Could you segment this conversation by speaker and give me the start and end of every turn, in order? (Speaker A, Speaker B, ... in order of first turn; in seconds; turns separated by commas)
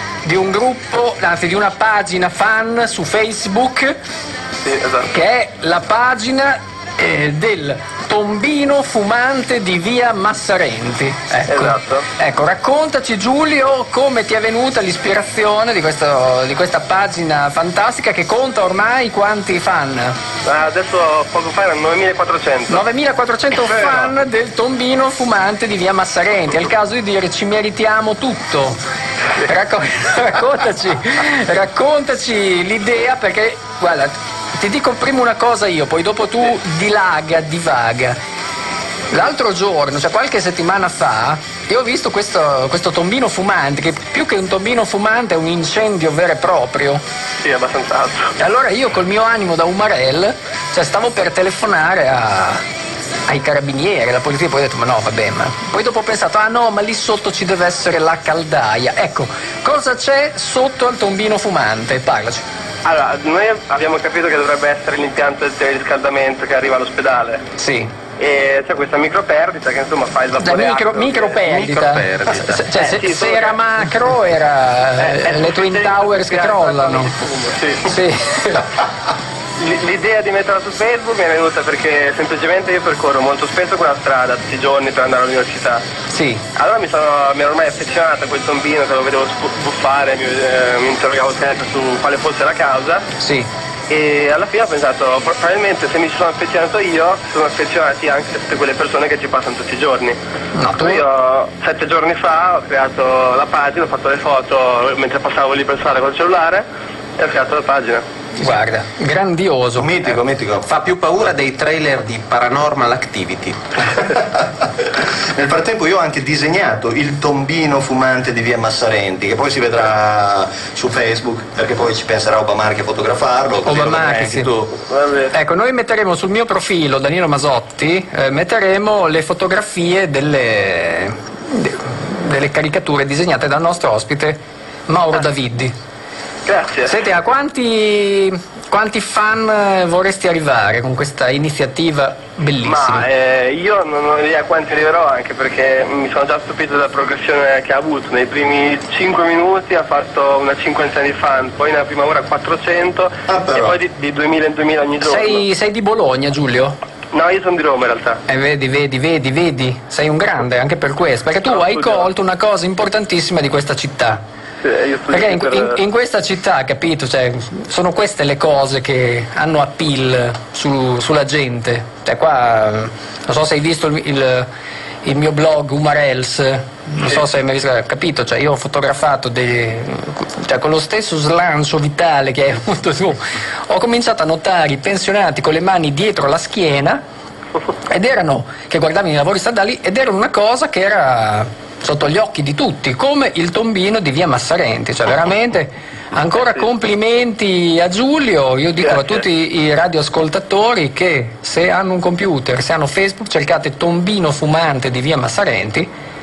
Speaker A: 0.2-4.0, Speaker B: 4.6-5.1, Speaker A: 5.1-20.2, Speaker B: 11.5-12.1, Speaker B: 20.4-22.8, Speaker A: 22.7-28.8, Speaker B: 23.6-24.1, Speaker A: 29.4-38.2, Speaker A: 39.1-47.0, Speaker B: 47.4-48.4, Speaker A: 48.4-52.6, Speaker A: 53.3-62.4, Speaker B: 62.9-67.4, Speaker A: 67.6-67.9, Speaker B: 68.2-71.5, Speaker A: 70.4-77.1, Speaker C: 71.4-72.6, Speaker B: 72.7-73.6, Speaker B: 75.0-77.9, Speaker A: 77.8-78.7, Speaker B: 79.6-85.8, Speaker A: 86.1-86.4, Speaker B: 86.6-93.1, Speaker A: 93.2-93.5, Speaker B: 93.9-100.2, Speaker A: 100.5-101.0, Speaker B: 100.8-106.7, Speaker B: 107.2-108.0, Speaker A: 108.4-110.1, Speaker D: 109.8-110.7, Speaker C: 110.7-113.8, Speaker D: 114.1-124.7, Speaker A: 123.6-124.5, Speaker B: 124.8-125.3, Speaker A: 125.3-135.7, Speaker B: 136.5-137.0, Speaker A: 136.9-143.1, Speaker B: 142.6-155.4, Speaker D: 153.3-153.8, Speaker A: 155.0-156.8, Speaker B: 157.1-158.2, Speaker A: 158.3-164.2, Speaker B: 161.5-162.1, Speaker B: 164.6-165.8, Speaker A: 165.1-174.5, Speaker A: 175.0-187.0, Speaker A: 187.9-205.9, Speaker B: 198.9-199.2